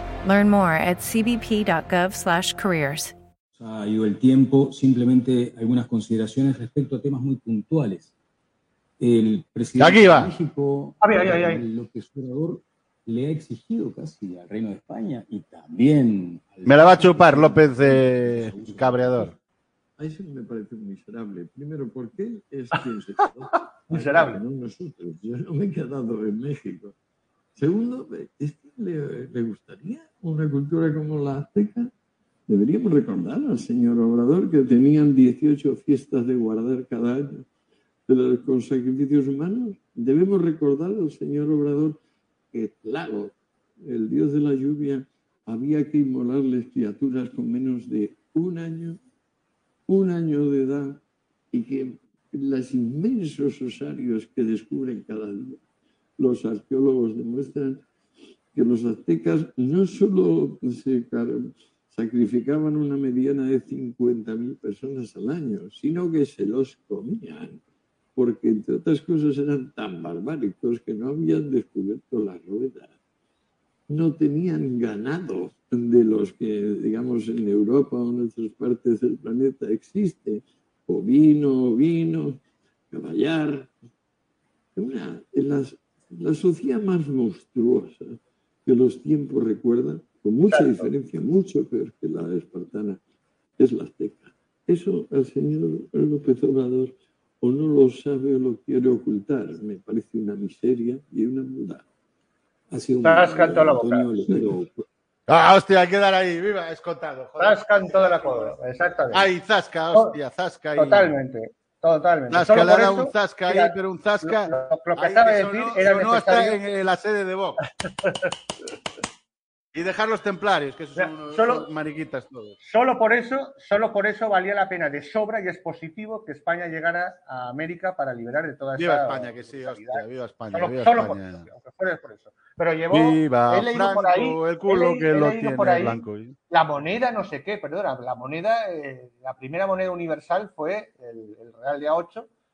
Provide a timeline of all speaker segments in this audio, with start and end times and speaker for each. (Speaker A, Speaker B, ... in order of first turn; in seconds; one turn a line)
Speaker A: 0.2-3.1
Speaker B: 3.6-8.1
Speaker B: 9.0-19.4
Speaker C: 9.8-10.3
Speaker D: 11.0-11.6
Speaker C: 16.7-19.3
Speaker E: 20.0-26.9
Speaker D: 23.9-24.4
Speaker E: 27.6-31.9
Speaker E: 32.5-37.5
Speaker E: 38.1-42.0
Speaker E: 42.5-49.0
Speaker E: 49.9-51.0
Speaker E: 51.5-55.6
Speaker E: 56.2-57.8
Speaker E: 58.5-67.6
Speaker E: 68.2-73.0
Speaker E: 73.9-82.4
Speaker E: 82.9-83.7
Speaker E: 84.8-93.0
Speaker D: 90.6-90.9
Speaker E: 93.6-101.8
Speaker B: 102.7-104.8
Speaker D: 103.0-104.1
Speaker C: 105.3-108.5
Speaker D: 107.4-109.2
Speaker C: 109.1-111.2
Speaker D: 110.8-116.6
Speaker C: 112.3-117.6
Speaker D: 118.0-118.3
Speaker C: 119.7-122.6
Speaker D: 121.0-121.7
Speaker D: 122.6-142.3
Speaker C: 128.8-131.4
Speaker C: 132.9-136.4